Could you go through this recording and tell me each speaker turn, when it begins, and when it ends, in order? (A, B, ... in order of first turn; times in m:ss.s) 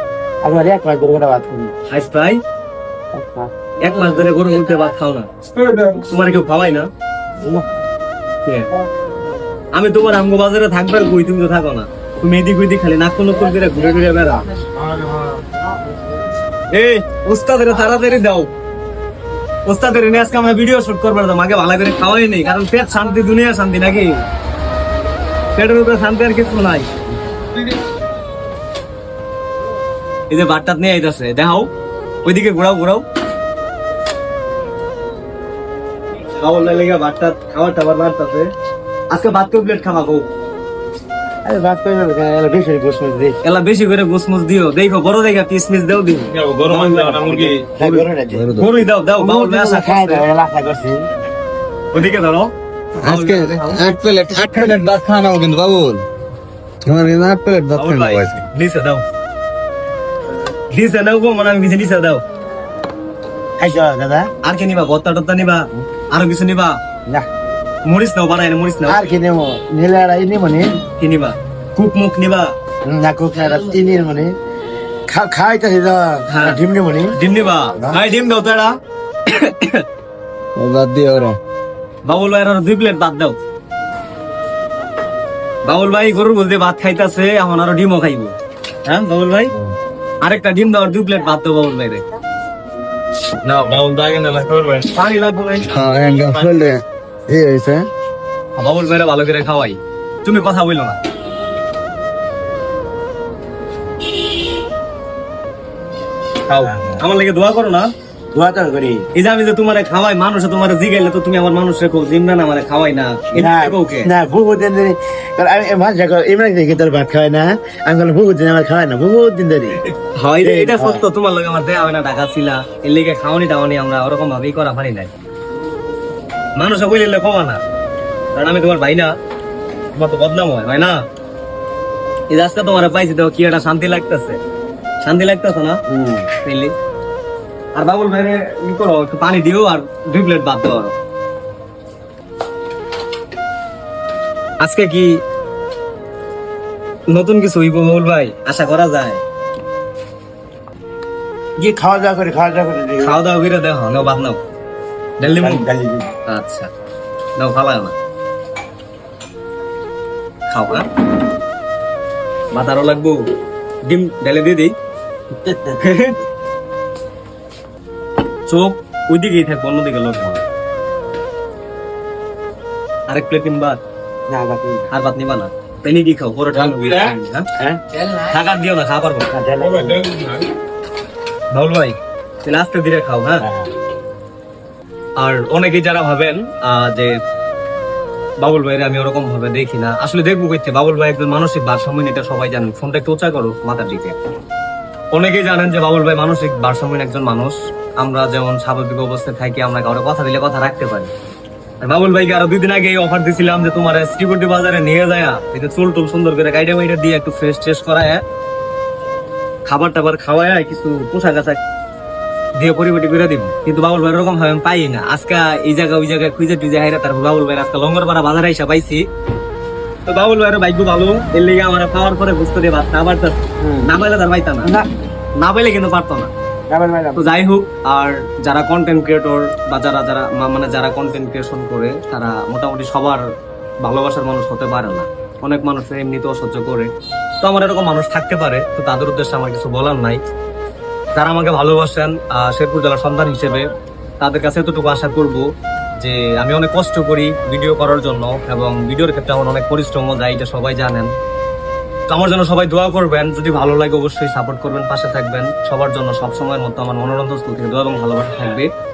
0:00.4-0:01.7 A
0:01.9-0:02.4 B
0:03.1-0:04.0 A
0:03.8-0:05.3 B
0:06.0-0:06.9 B
0:09.7-0:14.4 B
0:16.7-0:18.5 B
0:19.6-0:24.2 B
0:25.5-0:26.9 B
0:30.3-0:31.7 B
0:32.2-0:33.0 B
0:36.4-0:38.5 B
0:39.1-0:40.3 B
0:41.4-0:43.4 A
0:43.4-0:46.3 B
0:46.3-0:47.6 C
0:46.6-0:48.6 A
0:47.8-0:48.0 B
0:48.3-0:48.7 D
0:48.6-0:50.2 B
0:49.2-0:51.0 A
0:51.9-0:52.5 B
0:53.0-0:56.0 D
0:53.0-0:53.8 B
0:56.8-0:58.4 D
0:57.7-0:59.0 B
1:00.7-1:02.2 B
1:03.6-1:04.3 A
1:04.4-1:06.8 B
1:07.8-1:09.0 B
1:08.9-1:10.7 A
1:11.0-1:12.5 B
1:12.8-1:14.3 A
1:15.1-1:17.2 A
1:16.3-1:16.6 B
1:17.2-1:18.7 B
1:19.3-1:19.8 B
1:20.6-1:21.4 D
1:22.0-1:23.4 B
1:25.6-1:28.3 B
1:28.8-1:29.5 B
1:30.2-1:32.0 B
1:33.4-1:34.9 C
1:34.9-1:35.7 B
1:35.7-1:37.9 D
1:38.6-1:41.0 B
1:46.5-1:47.9 B
1:46.5-1:47.0 A
1:48.3-1:49.0 A
1:49.1-1:54.1 B
1:53.3-1:59.8 A
2:00.2-2:05.1 B
2:00.4-2:01.0 A
2:06.6-2:07.6 B
2:08.3-2:09.1 B
2:09.9-2:11.0 B
2:12.3-2:14.4 B
2:15.0-2:15.8 B
2:15.9-2:16.3 A
2:16.4-2:16.7 B
2:17.8-2:20.9 B
2:24.6-2:25.2 B
2:27.1-2:29.2 B
2:31.6-2:33.1 A
2:33.0-2:34.4 B
2:35.2-2:35.6 B
2:35.2-2:36.1 A
2:36.3-2:36.7 B
2:37.4-2:37.9 B
2:40.5-2:40.9 B
2:42.5-2:43.2 B
2:43.8-2:44.7 B
2:45.4-2:45.8 A
2:45.8-2:46.2 B
2:48.5-2:50.4 B
2:53.1-2:53.8 B
2:54.3-2:54.9 A
2:54.9-2:57.4 B
2:56.5-2:57.1 C
2:58.1-2:59.3 B
2:59.3-3:00.0 A
2:59.6-3:00.5 C
3:01.5-3:03.4 B
3:03.4-3:03.7 A
3:05.2-3:07.1 B
3:08.4-3:14.2 B
3:15.1-3:21.1 B
3:21.8-3:28.2 B
3:29.7-3:31.6 B
3:32.6-3:39.0 B
3:40.1-3:44.7 B
3:43.6-3:43.9 A
3:44.6-3:44.9 A
3:45.4-3:46.3 B
3:46.7-3:47.3 A
3:47.2-3:53.2 B
3:53.8-3:56.9 B
3:57.4-4:00.2 B
4:01.2-4:05.4 B
4:06.0-4:11.1 B
4:12.1-4:18.7 B